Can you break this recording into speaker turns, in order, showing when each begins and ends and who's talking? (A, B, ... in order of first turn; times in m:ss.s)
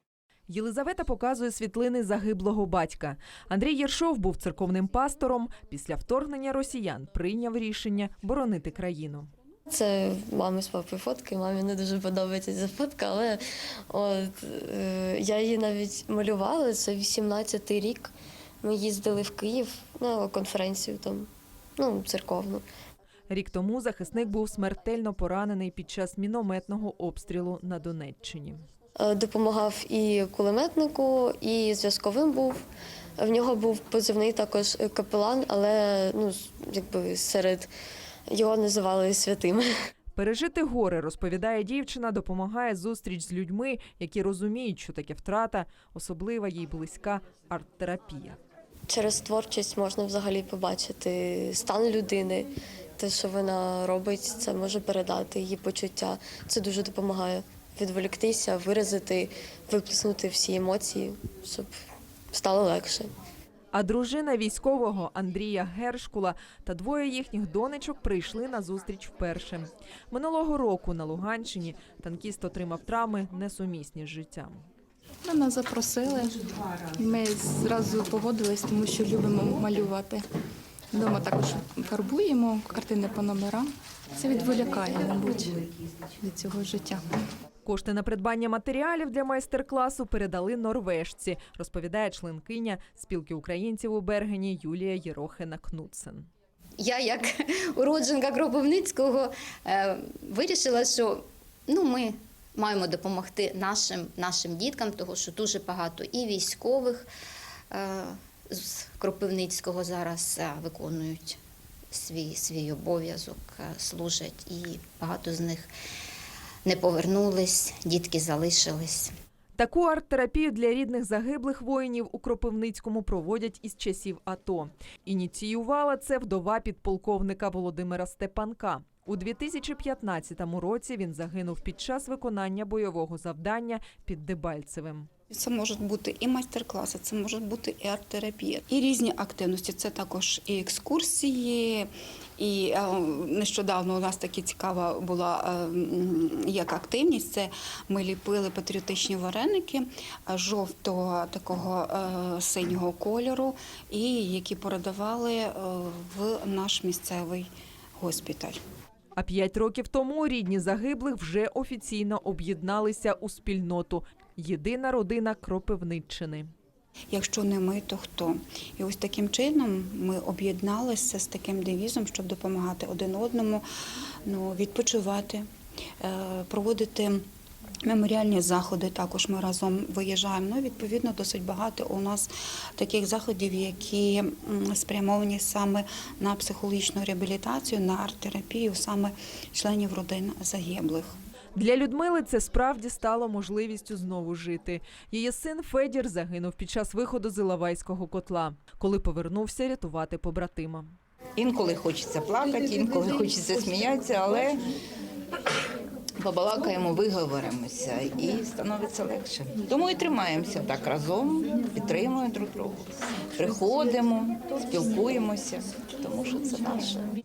0:00.5-0:09.3 A
0:09.7-0:13.4 B
0:13.9-0:21.3 B
0:21.8-0:22.6 B
0:23.3-0:28.6 A
0:29.0-0:32.6 B
0:33.2-0:37.7 B
0:38.3-0:39.6 B
0:40.2-0:48.4 A
0:48.9-1:01.7 B
1:02.3-1:03.1 B
1:03.7-1:14.6 A
1:15.2-1:20.3 C
1:20.9-1:27.1 C
1:27.7-1:36.3 A
1:36.8-1:47.1 D
1:47.7-1:51.4 D
1:51.9-1:55.7 D
1:56.6-1:59.1 D
1:59.6-2:15.1 A
2:15.3-2:38.6 E
2:39.2-2:46.5 A
2:47.1-2:53.6 E
2:54.3-2:55.5 E
2:56.0-2:57.2 E
2:57.9-3:11.2 E
3:11.6-3:21.0 A
3:21.4-3:24.6 F
3:26.2-3:37.1 F